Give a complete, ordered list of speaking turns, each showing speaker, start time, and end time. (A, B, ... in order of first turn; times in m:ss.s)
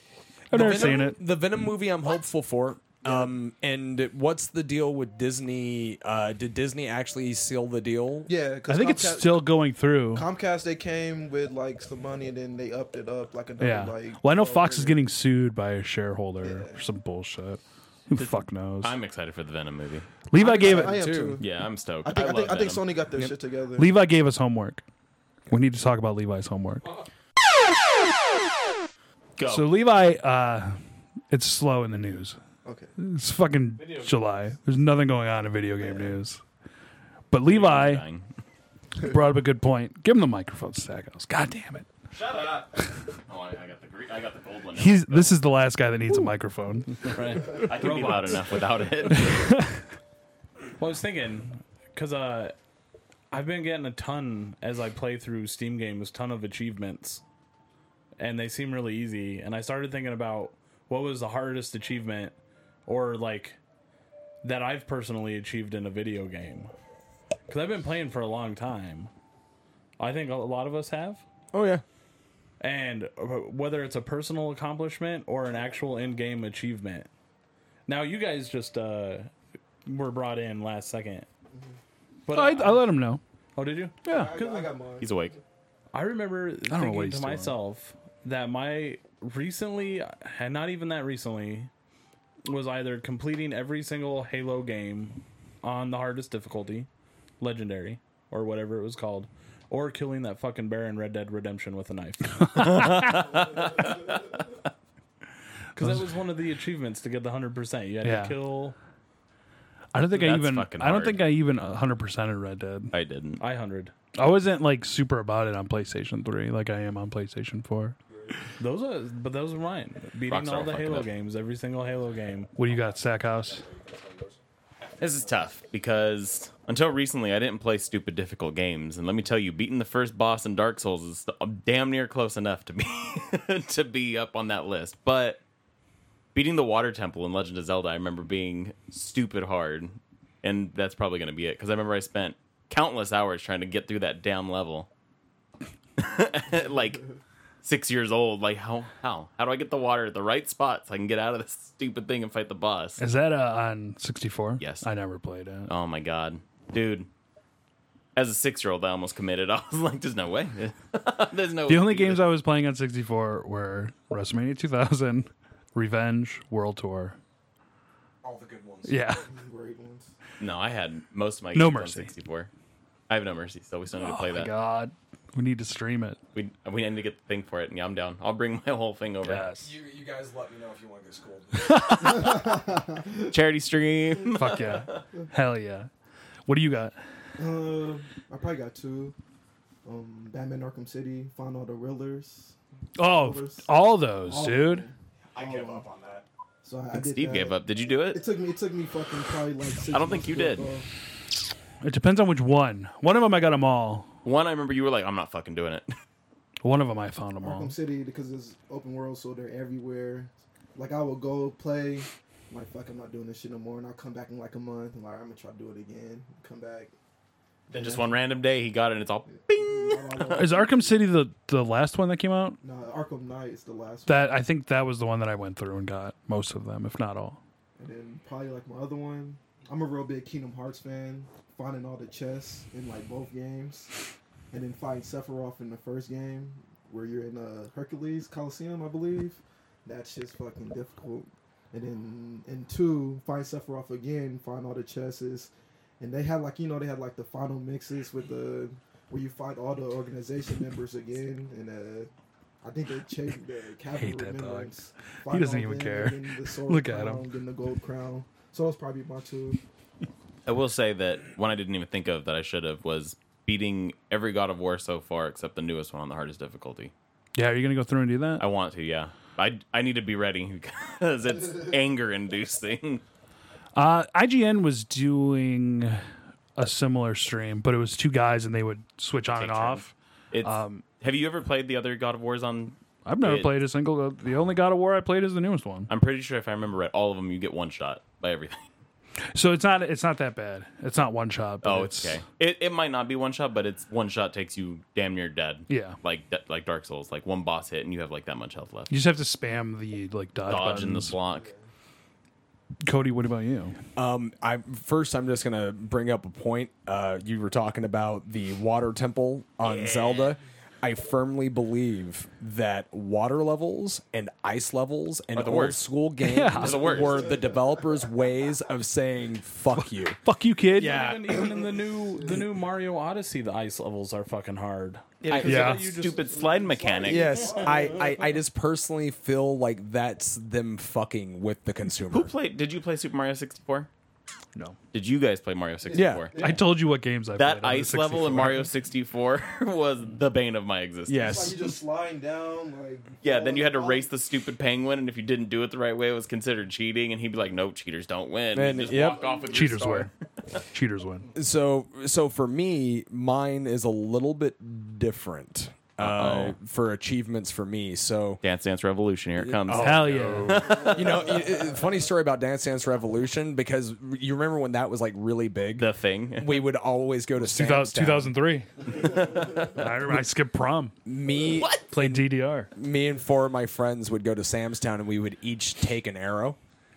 0:00.5-0:01.2 A
0:00.5-0:08.3 B
0:03.0-0:03.3 C
0:08.3-0:09.6 C
0:08.7-0:10.3 A
0:10.1-0:15.1 C
0:13.6-0:19.0 A
0:16.4-0:16.8 C
0:18.1-0:20.1 D
0:20.3-0:21.0 A
0:20.4-0:21.5 C
0:20.6-0:21.4 B
0:21.4-0:22.8 D
0:22.0-0:24.0 C
0:23.8-0:24.8 A
0:25.5-0:26.8 A
0:26.8-0:27.1 E
0:29.4-0:29.7 D
0:29.4-0:30.8 A
0:31.3-0:32.4 A
0:32.6-0:32.9 C
0:33.0-0:36.4 A
0:33.7-0:34.6 E
0:35.8-0:36.2 C
0:37.3-0:38.0 A
0:37.4-0:38.3 D
0:39.0-0:41.9 A
0:42.1-0:45.4 D
0:44.7-0:47.7 A
0:47.0-0:48.6 E
0:47.6-0:49.5 D
0:49.1-0:49.8 A
0:50.8-0:52.6 E
0:53.3-0:57.2 E
0:58.2-1:02.4 E
1:02.9-1:03.6 E
1:04.4-1:06.7 E
1:07.5-1:09.1 E
1:10.0-1:11.2 E
1:11.5-1:11.8 B
1:12.6-1:17.1 E
1:17.9-1:19.3 E
1:19.8-1:21.3 E
1:22.3-1:22.9 E
1:22.3-1:23.2 A
1:23.6-1:24.7 E
1:24.0-1:24.4 A
1:24.1-1:25.4 C
1:25.0-1:25.4 D
1:25.9-1:31.7 E
1:26.7-1:27.6 A
1:32.4-1:36.9 E
1:37.4-1:42.8 E
1:42.5-1:43.2 A
1:42.6-1:44.4 D
1:45.8-1:46.0 A
1:45.8-1:48.8 E
1:48.0-1:48.4 A
1:49.9-1:52.9 A
1:50.1-1:51.2 D
1:52.9-1:53.4 D
1:53.4-1:53.9 E
1:54.1-1:58.0 A
1:58.6-2:02.6 E
2:00.3-2:01.1 D
2:02.6-2:03.6 A
2:03.7-2:04.4 B
2:05.0-2:15.4 D
2:16.3-2:24.9 D
2:26.0-2:27.0 D
2:27.6-2:33.0 D
2:33.0-2:35.7 A
2:34.6-2:34.9 D
2:35.7-2:37.1 D
2:38.1-2:42.2 D
2:41.7-2:47.2 A
2:48.2-2:49.0 B
2:48.9-2:49.3 A
2:49.2-2:50.1 C
2:50.4-2:52.5 D
2:51.5-2:52.1 A
2:53.1-2:54.5 D
2:53.9-2:56.2 A
2:56.3-2:59.5 D
2:59.2-2:59.7 A
2:59.6-3:02.1 B
3:01.7-3:02.1 A
3:02.1-3:03.2 C
3:03.3-3:05.0 D
3:04.3-3:05.9 A
3:06.5-3:07.0 A
3:07.4-3:09.2 C
3:09.8-3:13.7 C
3:13.0-3:14.9 A
3:14.2-3:15.8 C
3:15.3-3:16.3 B
3:16.6-3:17.6 C
3:16.9-3:18.2 D
3:18.1-3:20.9 C
3:19.9-3:20.7 D
3:21.8-3:24.1 A
3:24.2-3:25.9 D
3:26.6-3:27.7 A
3:27.4-3:36.9 C
3:37.7-3:38.2 C
3:37.7-3:40.5 D
3:39.4-3:40.9 C
3:40.3-3:42.6 A
3:42.6-3:44.4 C
3:44.1-3:47.4 A
3:47.8-3:53.9 C
3:54.5-4:12.1 C
4:12.6-4:19.6 C
4:14.0-4:14.7 A
4:15.3-4:17.2 A
4:20.4-4:26.9 D
4:27.4-4:28.4 A
4:28.4-4:33.0 D
4:33.7-4:36.0 A
4:36.6-4:40.8 A
4:39.3-4:43.5 D
4:43.0-4:45.9 A
4:45.9-4:48.7 D
4:49.4-4:52.2 A
4:51.6-4:59.0 D
4:55.7-4:56.0 A
4:58.9-5:01.1 A
5:00.5-5:01.5 D
5:01.3-5:01.6 C
5:02.8-5:03.8 A
5:04.0-5:20.2 B
5:09.6-5:10.4 D
5:15.3-5:15.8 D
5:16.2-5:17.0 A
5:16.6-5:17.4 D
5:16.8-5:17.6 C
5:20.2-5:21.1 A
5:20.7-5:26.3 E
5:20.7-5:21.6 B
5:25.2-5:27.7 D
5:25.3-5:25.7 B
5:25.3-5:28.2 C
5:25.4-5:25.9 A
5:27.0-5:32.3 B
5:32.1-5:33.9 D
5:34.9-5:36.5 D
5:35.8-5:36.8 C
5:36.0-5:36.4 B
5:36.4-5:38.7 A
5:37.4-5:41.3 D
5:41.1-5:41.7 B
5:41.2-5:44.1 C
5:43.2-5:50.1 D
5:48.5-5:49.2 B
5:49.1-5:49.6 C
5:49.5-5:50.1 A
5:50.7-5:51.3 A
5:51.4-5:58.4 B
5:56.0-5:56.6 D
5:58.4-6:01.3 D
5:59.4-6:08.3 B
5:59.7-6:00.7 A
6:00.6-6:01.7 C
6:05.8-6:06.7 D
6:07.4-6:11.0 A
6:09.0-6:09.7 D
6:11.0-6:16.6 B
6:11.4-6:11.9 D
6:11.9-6:12.7 A